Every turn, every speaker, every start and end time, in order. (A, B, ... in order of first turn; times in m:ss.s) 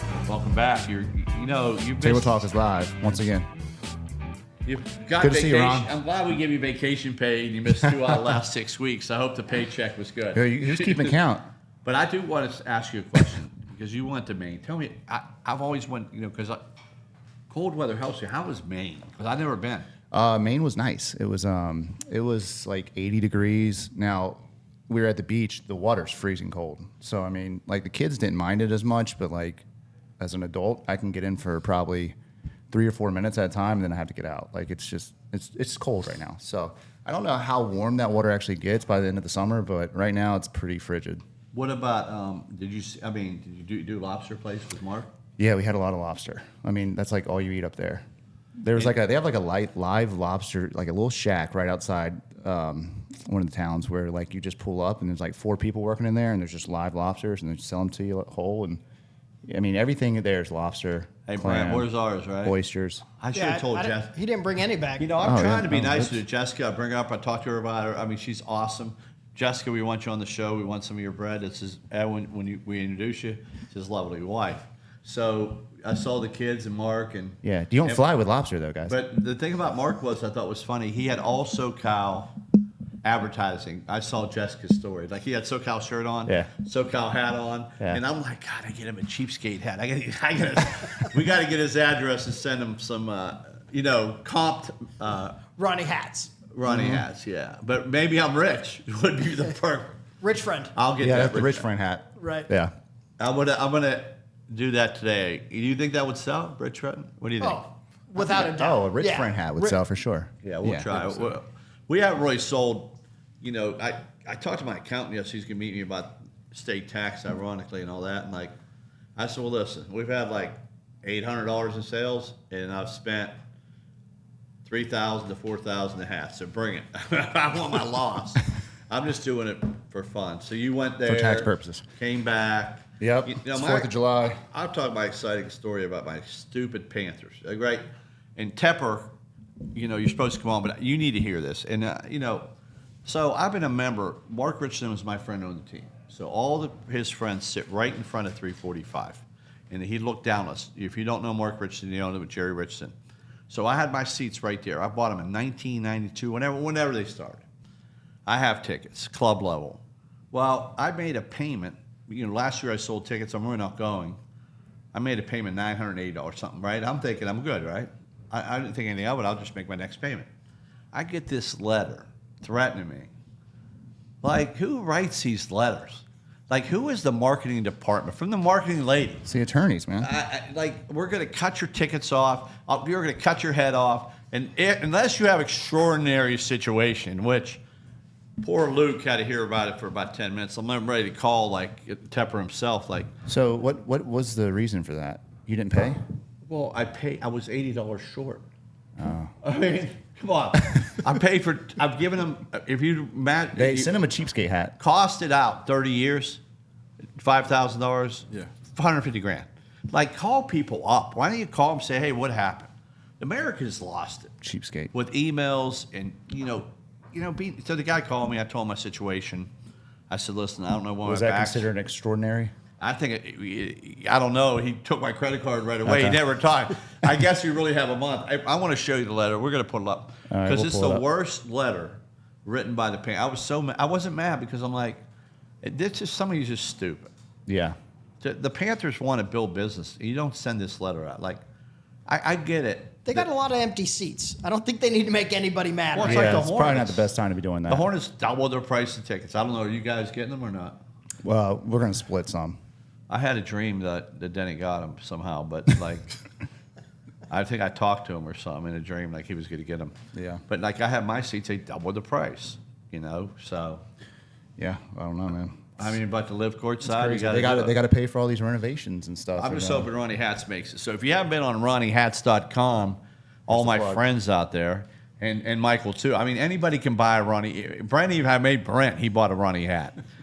0:00.3-0:02.4 A
0:02.0-0:03.5 B
0:04.7-0:11.2 A
0:05.2-0:05.9 B
0:10.4-0:11.4 B
0:11.8-0:16.6 A
0:17.5-0:19.9 A
0:20.1-0:29.6 B
0:30.2-0:32.2 B
0:32.7-0:41.2 B
0:41.5-0:45.1 A
0:45.4-0:48.0 B
0:48.6-0:58.8 B
0:59.5-1:01.9 B
1:01.3-1:02.6 A
1:02.4-1:03.0 B
1:03.2-1:04.2 A
1:03.3-1:05.2 C
1:05.0-1:18.1 A
1:05.2-1:06.2 B
1:17.4-1:19.0 B
1:18.9-1:22.3 A
1:23.0-1:35.4 A
1:35.6-1:36.4 C
1:36.5-1:40.0 A
1:36.6-1:37.1 B
1:40.2-1:40.7 C
1:40.7-1:41.7 A
1:41.0-1:42.7 B
1:42.2-1:42.5 C
1:43.2-1:47.7 A
1:47.4-1:49.8 C
1:48.2-1:51.3 B
1:50.4-1:58.5 A
1:59.2-2:03.4 A
2:04.6-2:17.8 A
2:11.1-2:11.8 B
2:13.0-2:14.4 B
2:18.4-2:19.1 A
2:19.7-2:22.5 A
2:23.0-2:32.9 A
2:33.5-2:37.4 A
2:38.3-2:44.2 A
2:44.9-2:50.3 A
2:50.9-2:53.1 A
2:54.2-2:59.3 A
2:59.3-3:00.1 B
3:00.0-3:07.6 A
3:08.4-3:13.1 A
3:13.3-3:16.0 B
3:16.4-3:18.4 A
3:19.0-3:19.3 B
3:19.4-3:24.0 A
3:23.6-3:24.8 B
3:24.8-3:26.4 A
3:27.2-3:34.3 A
3:34.4-3:34.9 B
3:34.9-3:39.5 A
3:40.1-3:41.7 A
3:41.0-3:42.5 B
3:42.8-3:55.0 A
3:45.8-3:46.2 B
3:50.3-3:51.0 B
3:55.6-3:57.1 A
3:57.5-3:57.8 B
3:58.2-4:01.4 A
4:02.1-4:03.3 A
4:03.1-4:06.4 C
4:05.9-4:07.1 A
4:06.0-4:07.9 B
4:07.7-4:10.8 A
4:11.2-4:12.6 B
4:13.1-4:16.1 A
4:17.3-4:19.9 A
4:20.1-4:20.4 B
4:20.5-4:23.8 A
4:24.6-4:25.8 B
4:25.8-4:27.8 A
4:26.8-4:29.9 B
4:29.4-4:40.0 A
4:33.5-4:34.0 B